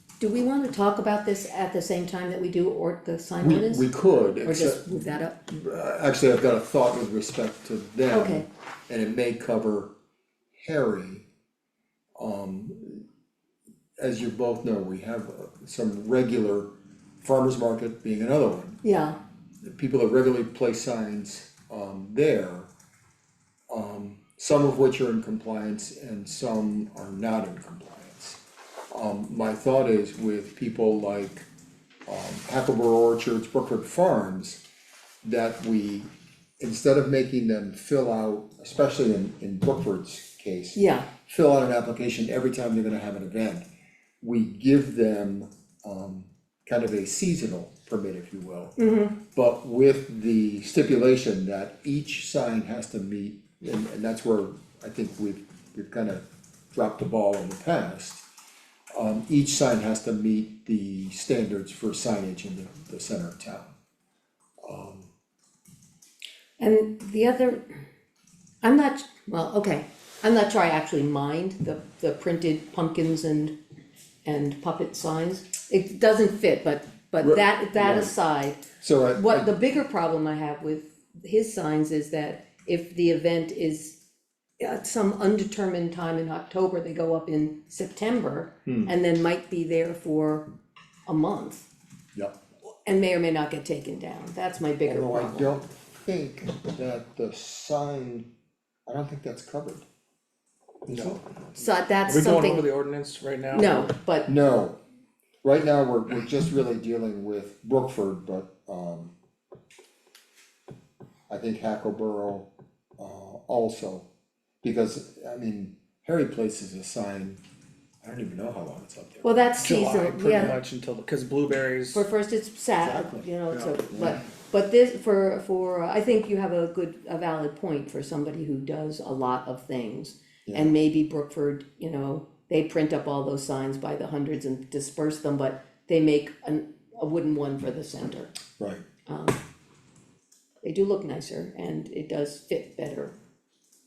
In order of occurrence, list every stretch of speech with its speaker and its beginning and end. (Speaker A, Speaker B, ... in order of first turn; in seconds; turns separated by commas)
Speaker A: 0.2-3.9, Speaker B: 3.4-9.9, Speaker A: 4.4-5.4, Speaker A: 8.1-8.4, Speaker B: 10.6-11.2, Speaker B: 12.2-13.0, Speaker B: 14.0-16.7, Speaker B: 17.2-18.8, Speaker A: 18.8-19.2, Speaker B: 19.6-22.7, Speaker B: 23.7-28.4, Speaker B: 28.9-31.5, Speaker B: 32.1-34.6, Speaker B: 35.2-43.6, Speaker A: 40.7-41.1, Speaker B: 44.2-48.7, Speaker A: 48.8-49.2, Speaker B: 49.3-58.2, Speaker B: 58.9-63.7, Speaker B: 64.6-65.1, Speaker A: 66.6-67.6, Speaker A: 68.6-73.5, Speaker A: 74.2-84.0, Speaker B: 77.2-78.1, Speaker B: 78.8-79.5, Speaker A: 84.6-90.5, Speaker B: 88.7-88.9, Speaker A: 91.0-91.6, Speaker A: 92.8-95.5, Speaker B: 94.8-98.3, Speaker B: 98.8-99.8, Speaker C: 100.9-101.2, Speaker B: 100.9-101.6, Speaker A: 101.5-102.7, Speaker C: 102.0-103.9, Speaker A: 103.5-104.3, Speaker B: 104.2-104.8, Speaker B: 105.4-109.1, Speaker B: 111.3-114.1, Speaker B: 114.6-117.4, Speaker B: 118.0-119.3, Speaker A: 119.2-120.6, Speaker C: 119.6-122.0, Speaker A: 121.9-138.3, Speaker B: 122.8-123.3, Speaker C: 123.5-123.8, Speaker B: 123.9-124.2, Speaker B: 130.5-130.7, Speaker B: 138.6-138.8, Speaker A: 139.1-139.4, Speaker A: 140.6-143.1